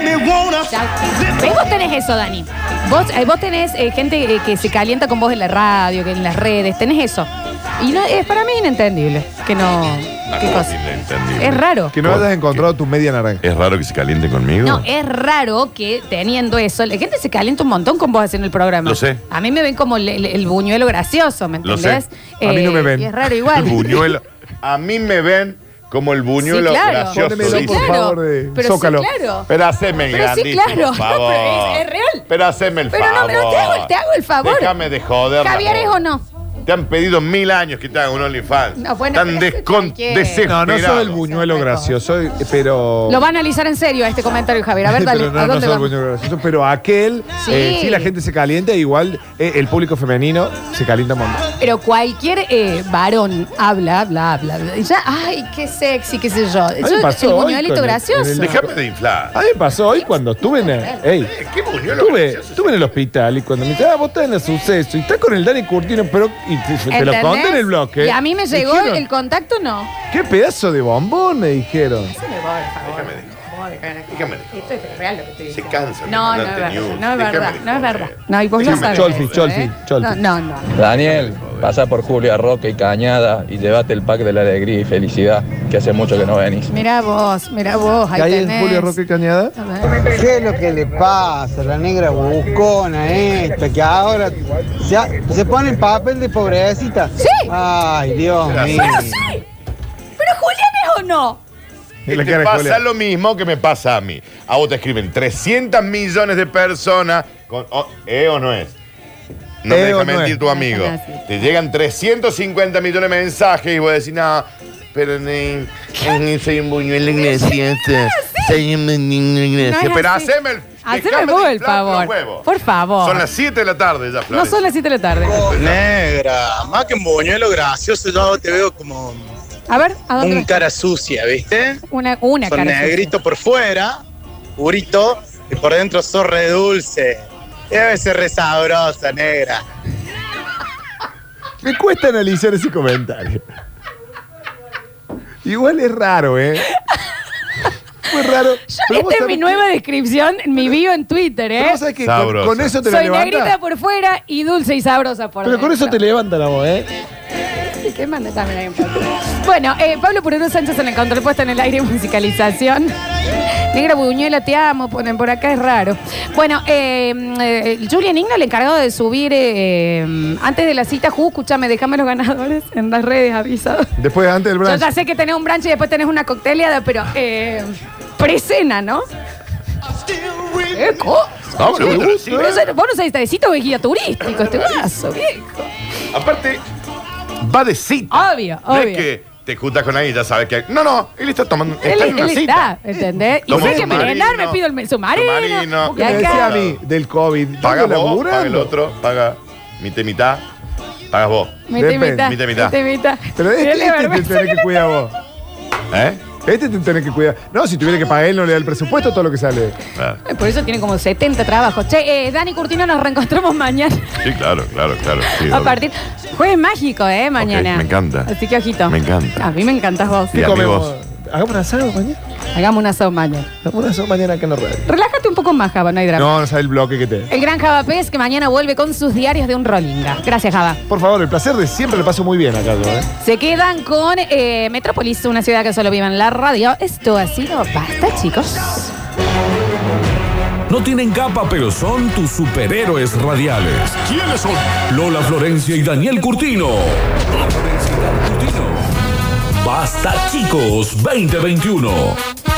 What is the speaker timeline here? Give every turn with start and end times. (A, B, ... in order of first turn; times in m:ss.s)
0:00.7-0:10.8 A
0:10.3-0:12.7 B
0:11.4-0:12.0 A
0:11.9-0:13.4 C
0:13.4-0:14.9 B
0:14.6-0:24.2 A
0:18.8-0:19.2 B
0:21.6-0:22.0 B
0:22.4-0:23.1 C
0:23.5-0:28.0 B
0:26.4-0:29.5 A
0:27.1-0:29.1 C
0:29.5-0:36.0 B
0:30.1-0:32.3 A
0:32.9-0:34.7 A
0:35.4-0:36.2 A
0:36.6-0:41.2 B
0:38.8-0:42.0 A
0:40.4-0:43.2 C
0:43.1-0:46.0 A
0:44.9-0:51.4 C
0:47.4-0:48.1 A
0:51.6-0:58.6 A
0:56.8-0:58.7 C
0:58.4-0:59.4 B
0:59.3-1:01.3 C
0:59.9-1:01.0 A
1:01.2-1:03.0 B
1:01.9-1:09.0 C
1:06.9-1:09.9 A
1:10.1-1:12.2 C
1:12.1-1:20.7 A
1:12.8-1:13.4 B
1:14.1-1:14.8 B
1:15.5-1:19.4 B
1:18.6-1:20.2 C
1:20.8-1:26.7 D
1:20.9-1:21.7 B
1:26.7-1:29.0 A
1:28.1-1:29.5 C
1:29.6-1:30.0 A
1:30.1-1:38.5 E
1:37.2-1:37.5 A
1:38.5-1:39.2 B
1:38.6-1:39.4 A
1:40.2-1:41.4 A
1:42.1-1:42.8 C
1:42.1-1:48.8 B
1:49.6-2:02.5 B
1:49.7-1:50.4 C
1:50.4-1:51.3 A
1:57.1-1:58.6 A
1:59.6-2:00.3 A
2:00.8-2:03.3 A
2:03.0-2:04.7 B
2:04.3-2:05.5 A
2:05.4-2:06.0 B
2:06.1-2:09.2 F
2:09.7-2:10.6 A
2:10.2-2:11.7 F
2:11.8-2:13.1 A
2:12.5-2:13.9 F
2:14.6-2:17.2 F
2:17.7-2:19.6 F
2:21.6-2:23.4 C
2:25.4-2:26.7 C
2:28.1-2:29.7 C
2:28.7-2:31.8 A
2:31.6-2:33.6 C
2:32.0-2:32.7 B
2:32.8-2:36.0 A
2:35.4-2:36.9 C
2:37.6-2:42.9 A
2:43.7-2:53.9 A
2:54.0-2:54.9 C
2:54.6-2:59.0 A
3:00.7-3:05.7 A
3:01.5-3:02.7 B
3:01.7-3:02.6 C
3:04.2-3:05.0 B
3:06.1-3:06.6 B
3:07.4-3:12.7 B
3:08.1-3:09.1 A
3:11.8-3:16.6 A
3:13.4-3:14.6 B
3:13.5-3:14.1 C
3:15.1-3:16.8 B
3:15.9-3:18.7 C
3:17.6-3:20.4 B
3:21.1-3:21.7 B
3:21.7-3:25.1 A
3:21.8-3:22.4 C
3:22.2-3:22.8 B
3:23.4-3:25.1 C
3:25.9-3:26.3 B
3:26.4-3:29.8 C
3:30.0-3:30.2 B
3:30.3-3:34.1 A
3:34.2-3:35.8 B
3:35.2-3:40.4 A
3:37.4-3:38.3 B
3:38.9-3:39.5 B
3:40.3-3:42.2 C
3:40.3-3:40.9 B
3:42.5-3:43.5 A
3:43.6-3:44.8 C
3:44.9-3:46.3 A
3:46.1-3:47.3 C
3:47.3-3:50.8 A
3:50.9-3:53.1 C
3:53.2-3:58.9 A
4:00.7-4:08.8 G
4:09.6-4:12.2 G